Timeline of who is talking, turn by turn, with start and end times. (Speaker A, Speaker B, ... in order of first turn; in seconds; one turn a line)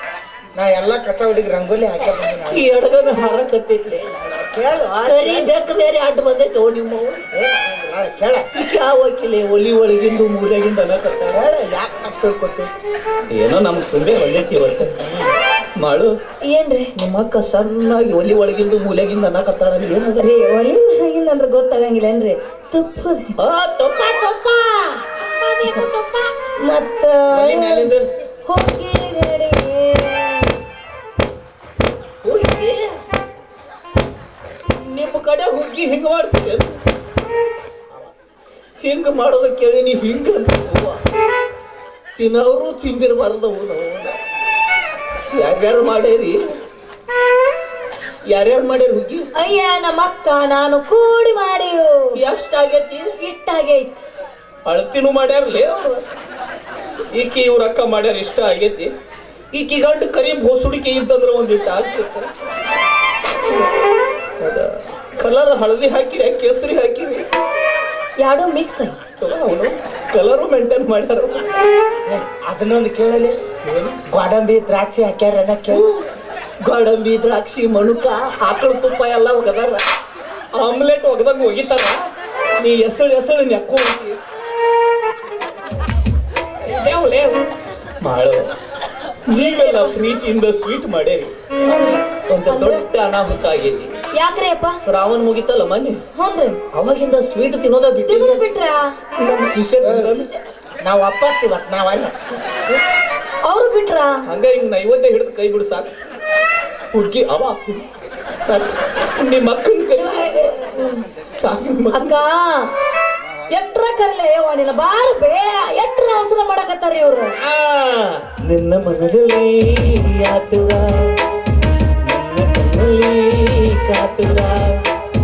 Speaker A: 0.5-2.6
Speaker B: 2.5-4.1
Speaker A: 4.2-5.5
Speaker B: 5.0-7.2
Speaker A: 7.3-8.5
Speaker B: 8.5-11.4
Speaker A: 11.3-12.7
Speaker B: 13.3-15.0
Speaker B: 15.8-16.1
Speaker C: 16.5-16.9
Speaker B: 16.9-20.3
Speaker C: 20.2-23.3
Speaker B: 23.4-25.9
Speaker C: 26.6-27.9
Speaker B: 27.3-28.0
Speaker C: 28.4-30.5
Speaker B: 32.2-32.8
Speaker B: 34.7-36.7
Speaker B: 38.8-41.0
Speaker B: 42.2-44.1
Speaker B: 45.3-46.4
Speaker B: 48.3-49.3
Speaker C: 49.4-52.2
Speaker B: 52.1-53.1
Speaker C: 53.2-54.0
Speaker B: 54.6-56.0
Speaker B: 57.1-58.9
Speaker B: 59.5-62.3
Speaker B: 64.4-67.2
Speaker C: 68.2-69.0
Speaker B: 69.2-71.6
Speaker A: 72.1-73.4
Speaker B: 73.6-74.0
Speaker A: 74.0-75.8
Speaker B: 75.7-76.0
Speaker B: 76.6-79.8
Speaker B: 80.5-82.0
Speaker B: 82.6-84.2
Speaker B: 86.6-87.5
Speaker B: 88.0-88.5
Speaker B: 89.3-93.9
Speaker C: 89.3-90.0
Speaker C: 92.5-92.8
Speaker C: 94.1-94.8
Speaker B: 94.8-96.0
Speaker C: 96.1-96.6
Speaker B: 96.7-98.4
Speaker C: 98.1-98.9
Speaker B: 99.2-100.3
Speaker A: 99.8-100.1
Speaker C: 100.1-100.4
Speaker A: 100.8-102.1
Speaker C: 103.4-104.2
Speaker B: 104.3-105.9
Speaker B: 106.9-107.8
Speaker B: 108.5-110.5
Speaker C: 110.0-111.0
Speaker B: 111.4-112.2
Speaker C: 111.9-112.7
Speaker C: 113.5-117.3
Speaker B: 117.4-121.1
Speaker B: 122.0-124.8